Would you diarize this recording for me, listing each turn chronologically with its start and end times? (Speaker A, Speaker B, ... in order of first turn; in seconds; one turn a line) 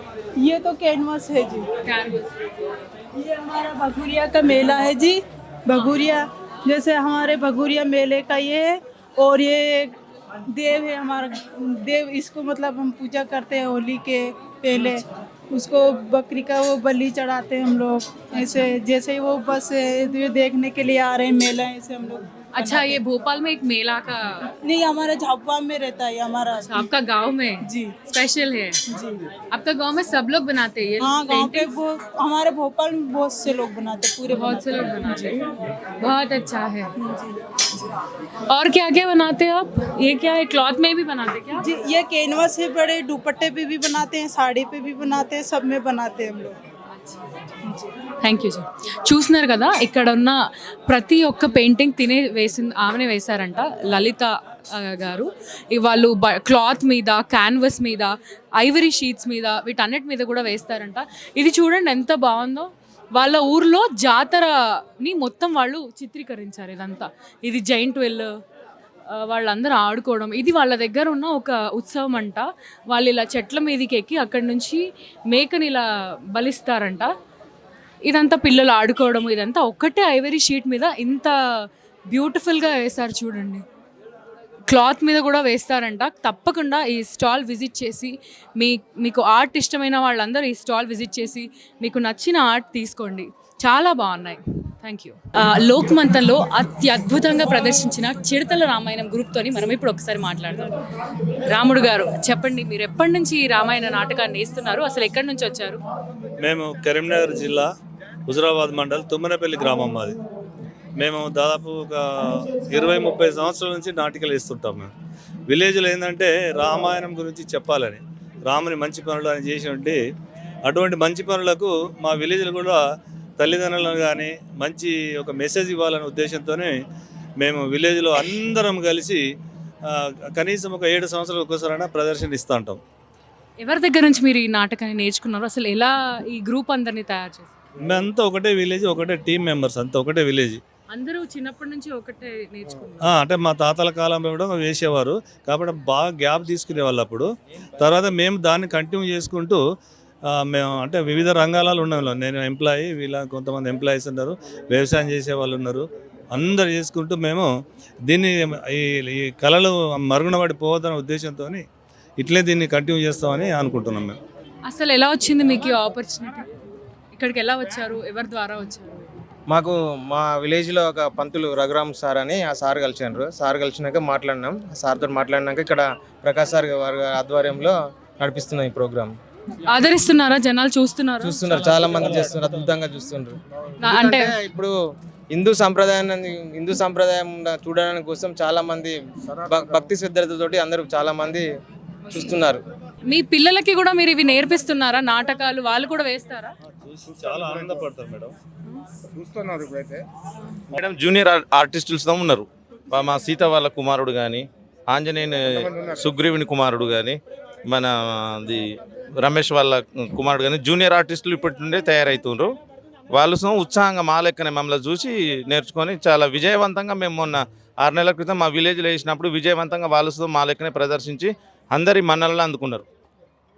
Speaker A: 0.4-1.7
Speaker B: 1.8-2.5
Speaker A: 3.1-9.9
Speaker A: 10.5-23.0
Speaker B: 14.7-15.0
Speaker B: 18.3-18.6
Speaker B: 22.5-24.5
Speaker A: 24.6-26.8
Speaker B: 26.6-28.8
Speaker A: 27.6-27.9
Speaker A: 28.9-29.2
Speaker B: 29.5-31.7
Speaker A: 31.0-34.9
Speaker B: 34.3-35.4
Speaker B: 36.0-36.9
Speaker A: 37.0-37.3
Speaker B: 38.5-41.6
Speaker A: 41.6-46.6
Speaker B: 47.0-47.4
Speaker B: 48.2-68.4
Speaker B: 69.1-77.1
Speaker B: 78.0-83.6
Speaker B: 84.7-100.8
Speaker B: 101.5-105.8
Speaker C: 106.4-107.7
Speaker C: 108.3-110.2
Speaker C: 111.0-114.9
Speaker C: 115.5-120.0
Speaker C: 120.7-122.8
Speaker C: 123.4-126.8
Speaker C: 127.4-129.2
Speaker C: 129.9-132.8
Speaker B: 133.6-137.6
Speaker C: 137.8-140.6
Speaker B: 140.9-143.1
Speaker C: 143.1-147.3
Speaker C: 147.8-149.6
Speaker C: 150.3-157.5
Speaker C: 158.0-161.6
Speaker C: 162.2-164.2
Speaker B: 164.7-166.5
Speaker B: 167.1-169.1
Speaker D: 169.5-179.1
Speaker B: 179.7-181.4
Speaker D: 181.2-184.7
Speaker B: 183.8-184.3
Speaker D: 185.3-188.9
Speaker D: 189.5-191.4
Speaker D: 192.1-192.6
Speaker B: 193.1-196.5
Speaker C: 196.8-198.3
Speaker E: 200.7-212.5
Speaker E: 213.1-222.8